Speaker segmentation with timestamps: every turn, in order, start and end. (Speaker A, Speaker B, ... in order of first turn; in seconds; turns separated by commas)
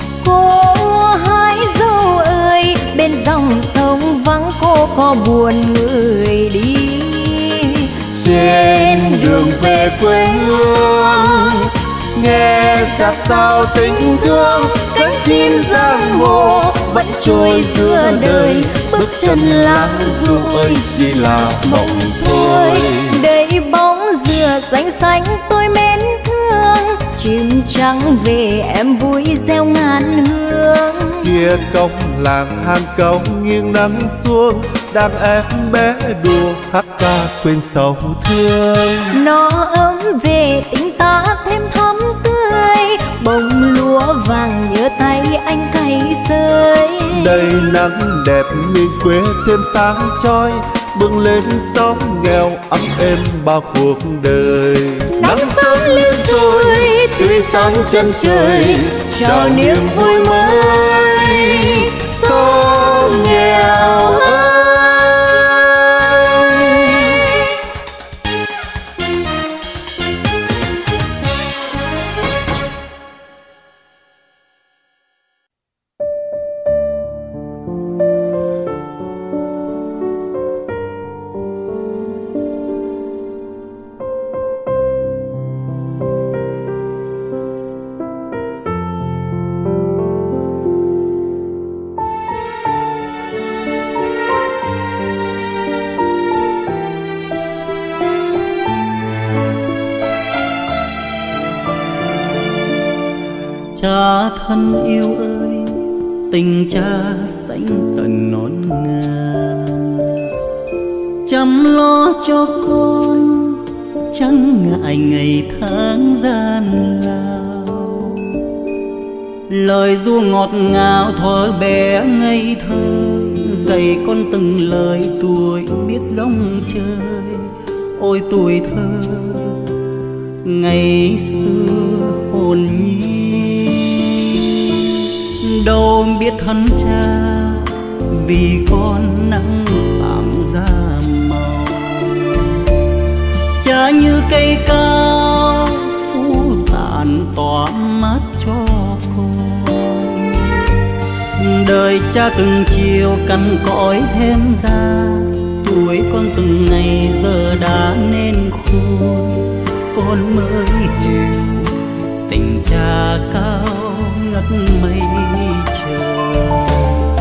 Speaker A: 0.2-11.5, Speaker B: 8.2-23.2, Speaker A: 12.9-31.3, Speaker B: 31.2-39.2, Speaker A: 39.1-47.8, Speaker B: 47.1-64.2, Speaker A: 55.1-65.7, Speaker C: 103.8-110.1, Speaker C: 111.3-118.3, Speaker C: 119.5-129.6, Speaker C: 130.4-142.5, Speaker C: 143.6-150.6, Speaker C: 151.4-161.7, Speaker C: 162.3-166.9